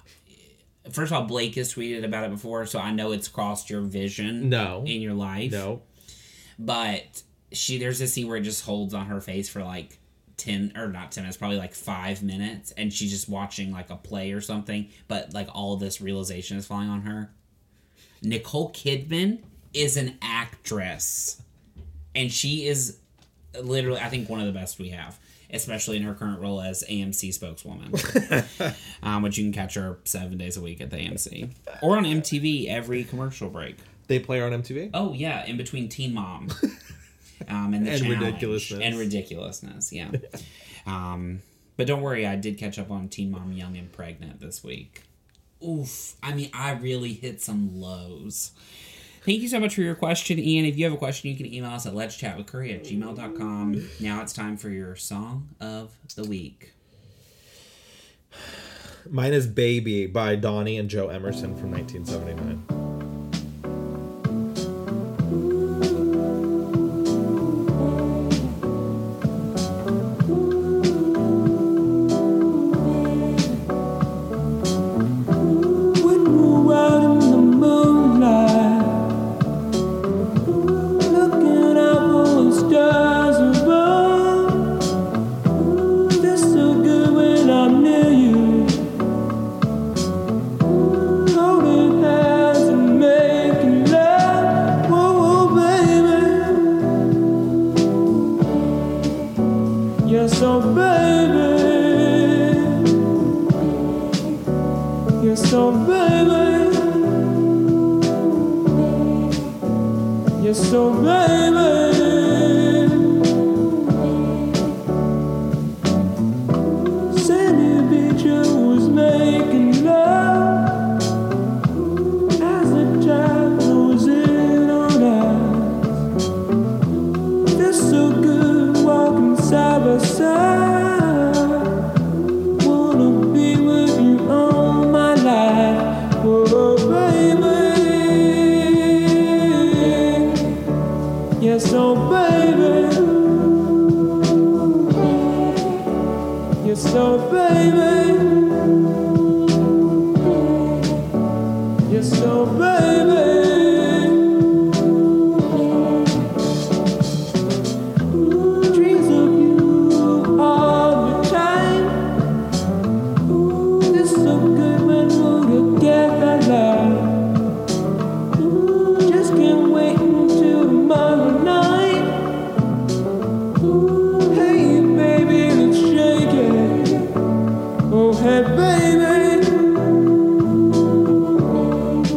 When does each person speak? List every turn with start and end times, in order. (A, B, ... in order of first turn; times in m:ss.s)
0:00.8-0:05.7 A
0:04.4-0:05.8 B
0:06.6-0:17.3 A
0:18.2-0:21.4 A
0:22.1-0:23.0 A
0:23.5-0:33.8 A
0:34.1-0:34.9 B
0:34.9-0:36.6 A
0:37.4-0:40.3 A
0:37.8-0:39.1 B
0:40.8-0:45.0 A
0:45.6-0:48.5 A
0:49.2-0:56.7 A
0:59.0-1:02.6 B
1:15.8-1:19.1 C
1:20.4-1:24.8 C
1:25.5-1:28.9 C
1:30.7-1:36.9 C
1:40.0-1:43.0 C
1:45.2-1:47.2 C
1:50.4-1:53.2 C
1:56.7-2:00.9 C
2:02.4-2:05.9 C
2:07.5-2:20.6 C
2:21.4-2:23.8 C
2:26.6-2:28.6 C
2:31.8-2:34.2 C
2:38.1-2:42.1 C
2:43.2-2:47.3 C
2:48.4-2:52.2 C
2:53.6-2:57.2 C
2:57.9-2:59.8 C